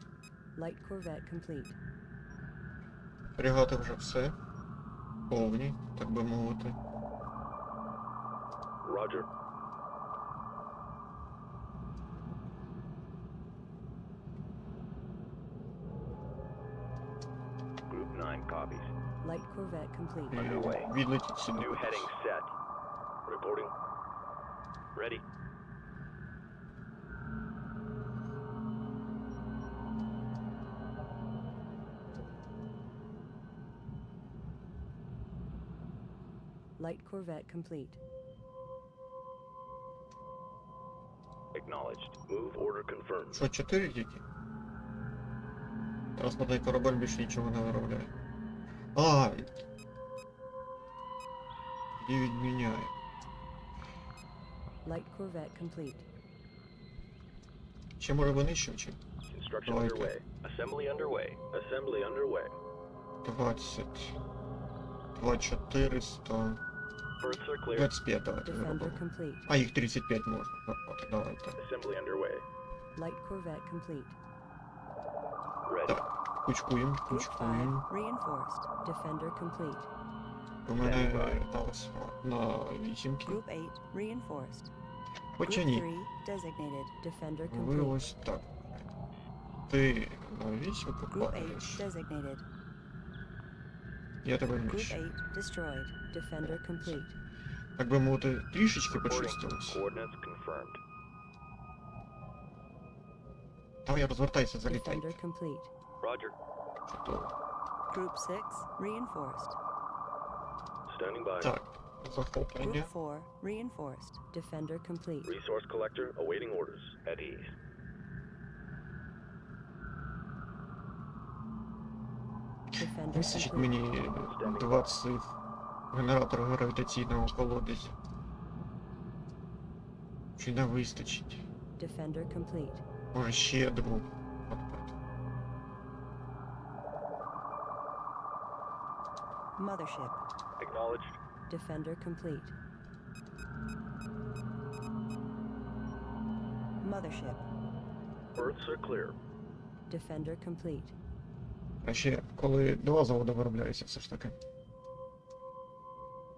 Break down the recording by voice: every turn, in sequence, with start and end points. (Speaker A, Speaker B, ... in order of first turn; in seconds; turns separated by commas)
Speaker A: 0.5-1.8, Speaker B: 3.4-4.3, Speaker B: 5.3-6.8, Speaker C: 8.8-9.3, Speaker C: 17.9-18.9, Speaker A: 19.2-20.5, Speaker B: 20.3-22.1, Speaker C: 20.3-20.9, Speaker C: 21.5-22.5, Speaker C: 23.2-23.7, Speaker C: 24.9-25.2, Speaker A: 36.8-38.0, Speaker C: 41.5-43.4, Speaker B: 43.3-44.2, Speaker B: 46.1-48.1, Speaker B: 48.9-49.6, Speaker B: 52.0-52.9, Speaker A: 54.8-56.0, Speaker B: 58.0-59.0, Speaker C: 59.3-62.5, Speaker B: 59.6-60.1, Speaker B: 63.2-64.1, Speaker B: 65.1-66.6, Speaker C: 67.2-67.9, Speaker B: 67.7-71.6, Speaker A: 68.4-69.5, Speaker C: 71.6-72.4, Speaker A: 73.0-74.2, Speaker C: 75.6-76.0, Speaker B: 75.9-77.8, Speaker A: 77.1-79.9, Speaker B: 80.7-83.4, Speaker C: 80.7-81.4, Speaker A: 83.2-84.7, Speaker B: 85.3-85.9, Speaker A: 85.4-88.0, Speaker B: 87.5-88.9, Speaker B: 89.7-91.8, Speaker A: 91.1-92.5, Speaker B: 94.2-95.0, Speaker A: 94.7-97.2, Speaker B: 96.4-97.0, Speaker B: 97.8-99.8, Speaker C: 98.9-100.8, Speaker B: 103.8-105.2, Speaker A: 104.7-105.7, Speaker C: 106.0-106.3, Speaker B: 106.9-107.3, Speaker A: 107.9-109.6, Speaker C: 110.9-111.5, Speaker B: 111.4-112.9, Speaker A: 112.6-115.3, Speaker C: 115.2-117.5, Speaker B: 122.7-125.3, Speaker A: 122.7-123.8, Speaker C: 124.2-124.9, Speaker B: 125.9-128.0, Speaker B: 130.4-131.4, Speaker A: 131.8-132.8, Speaker B: 133.1-134.9, Speaker A: 139.6-140.2, Speaker C: 140.6-141.2, Speaker A: 141.5-142.5, Speaker A: 146.8-147.4, Speaker C: 148.3-149.2, Speaker A: 149.9-150.9, Speaker B: 151.8-154.4